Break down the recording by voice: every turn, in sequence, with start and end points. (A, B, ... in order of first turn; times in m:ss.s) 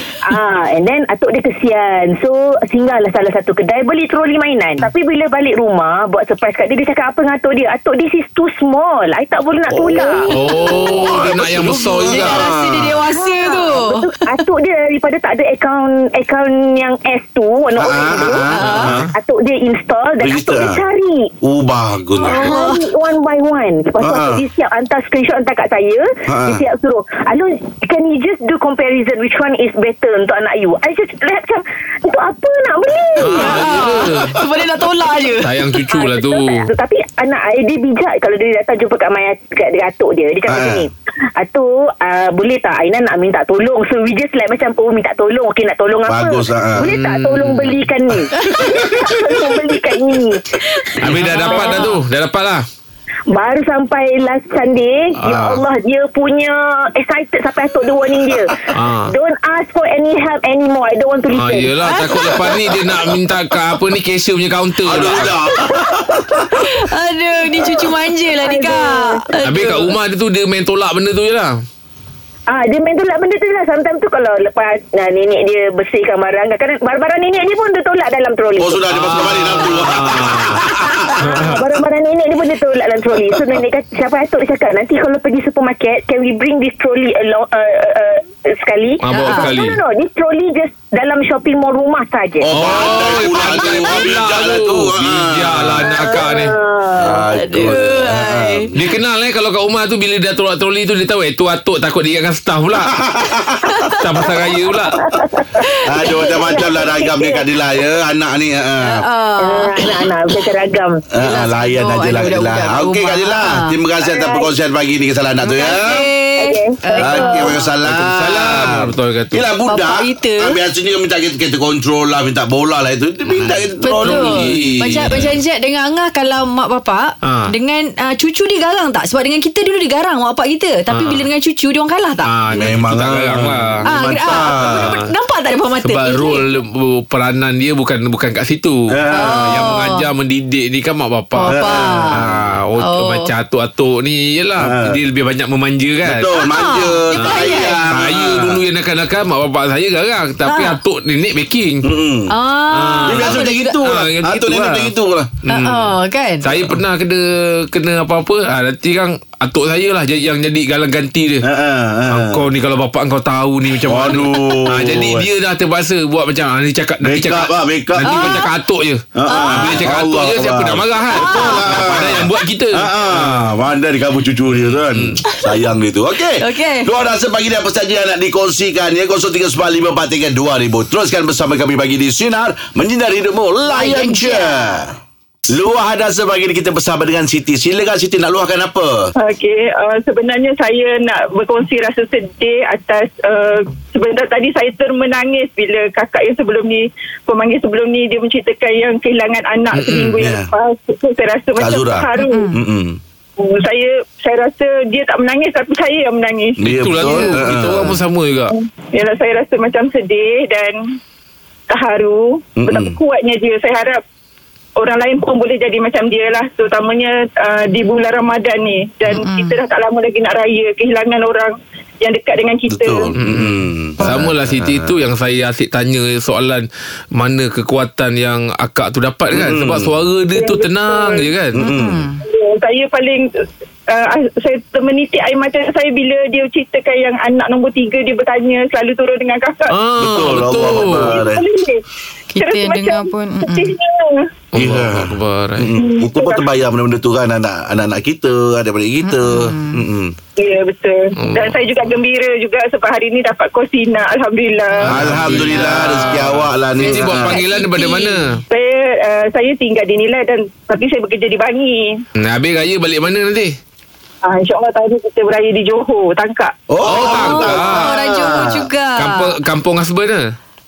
0:00.2-0:10.8 A
0:09.7-0:13.0 B
0:10.3-0:14.4 C
0:10.3-0:12.4 D
0:13.1-0:21.3 A
0:17.8-0:19.1 B
0:18.5-0:18.9 C
0:18.6-0:19.1 D
0:20.2-0:20.8 B
0:21.4-0:22.6 B
0:22.2-0:33.8 A
0:22.2-0:22.8 C
0:24.0-0:24.4 B
0:26.3-0:26.6 B
0:33.2-0:34.4 D
0:33.3-0:35.5 C
0:35.4-0:36.7 D
0:35.9-0:51.8 A
0:40.5-0:40.8 B
0:46.1-0:46.9 B
0:46.8-0:47.8 D
0:48.4-0:48.8 C
0:50.6-0:52.0 C
0:51.0-0:52.6 D
0:53.3-1:02.7 A
0:55.2-0:55.6 D
0:58.7-0:59.1 D
1:01.4-1:05.4 D
1:04.8-1:06.7 B
1:04.9-1:06.4 A
1:06.4-1:09.9 C
1:08.4-1:09.2 A
1:09.4-1:11.6 D
1:12.5-1:33.0 A
1:18.6-1:21.2 B
1:18.9-1:21.6 D
1:29.0-1:29.8 D
1:29.1-1:29.5 C
1:32.4-1:36.0 B
1:32.5-1:36.5 D
1:35.8-1:36.2 C
1:36.0-1:37.2 A
1:37.0-1:38.7 B
1:37.3-1:38.7 C
1:38.8-1:42.9 D
1:42.9-1:43.8 B
1:43.6-1:44.0 C
1:44.0-1:45.1 D
1:45.0-1:47.4 A
1:45.8-1:49.0 B
1:46.3-1:46.6 C
1:48.8-1:50.0 C
1:49.4-1:51.0 A
1:51.1-1:56.1 B
1:51.2-1:53.8 C
1:54.0-1:54.5 A
1:55.4-1:57.7 C
1:56.4-1:57.6 A
1:57.0-2:05.0 B
1:57.8-1:59.4 D
1:59.7-2:00.6 C
2:03.2-2:05.3 D
2:03.8-2:12.3 C
2:07.2-2:07.5 D
2:10.9-2:11.2 D
2:12.2-2:13.8 D
2:12.5-2:14.9 B
2:13.8-2:16.4 C
2:14.3-2:15.1 D
2:15.8-2:26.3 D
2:18.9-2:19.7 B
2:19.1-2:20.1 C
2:21.4-2:22.2 C
2:21.5-2:22.5 B
2:22.8-2:23.3 C
2:24.6-2:25.0 B
2:26.0-2:28.6 B
2:26.4-2:27.8 C
2:27.2-2:31.9 D
2:30.4-2:30.8 C
2:31.8-2:32.3 B
2:32.3-2:33.8 C
2:32.7-2:34.9 D
2:33.0-2:35.4 B
2:35.4-2:41.4 D
2:35.5-2:36.6 C
2:41.4-2:42.5 B
2:42.1-2:53.5 D
2:43.8-2:45.3 B
2:47.0-2:48.5 B
2:48.0-2:48.5 C
2:49.2-3:05.0 B
2:49.3-2:49.9 C
2:51.1-2:52.0 C
2:54.5-2:55.2 D
2:55.3-2:55.5 C
2:56.2-2:56.9 C
3:03.7-3:04.8 C
3:05.5-3:09.1 B
3:09.2-3:22.5 E
3:19.7-3:20.3 D
3:20.2-3:20.5 B
3:21.6-3:23.0 B
3:22.2-3:22.6 C
3:23.4-3:27.4 E
3:26.6-3:28.0 B
3:26.6-3:28.6 D
3:28.6-3:30.8 E
3:31.7-3:34.0 E
3:32.6-3:33.0 B
3:34.8-3:43.1 E
3:39.0-3:39.6 C
3:42.7-3:45.0 B
3:43.2-3:51.6 D
3:49.3-3:50.0 B
3:50.4-3:51.3 E
3:51.5-3:52.1 B
3:51.6-3:52.2 C
3:52.2-3:53.3 E
3:53.9-3:59.8 E
3:59.7-4:01.2 D
4:00.0-4:01.4 B
4:00.6-4:01.8 E
4:02.3-4:03.8 C
4:02.4-4:04.2 E
4:04.5-4:05.7 D
4:04.5-4:10.1 B
4:05.8-4:06.5 E
4:09.0-4:09.8 C
4:10.4-4:15.6 E
4:11.2-4:11.8 D
4:14.8-4:18.4 D
4:14.9-4:17.4 B
4:16.8-4:18.4 C
4:18.5-4:22.0 E
4:22.2-4:23.6 D
4:24.2-4:26.5 E
4:26.7-4:28.7 B
4:26.8-4:27.9 D
4:26.9-4:29.3 C
4:29.0-4:30.3 D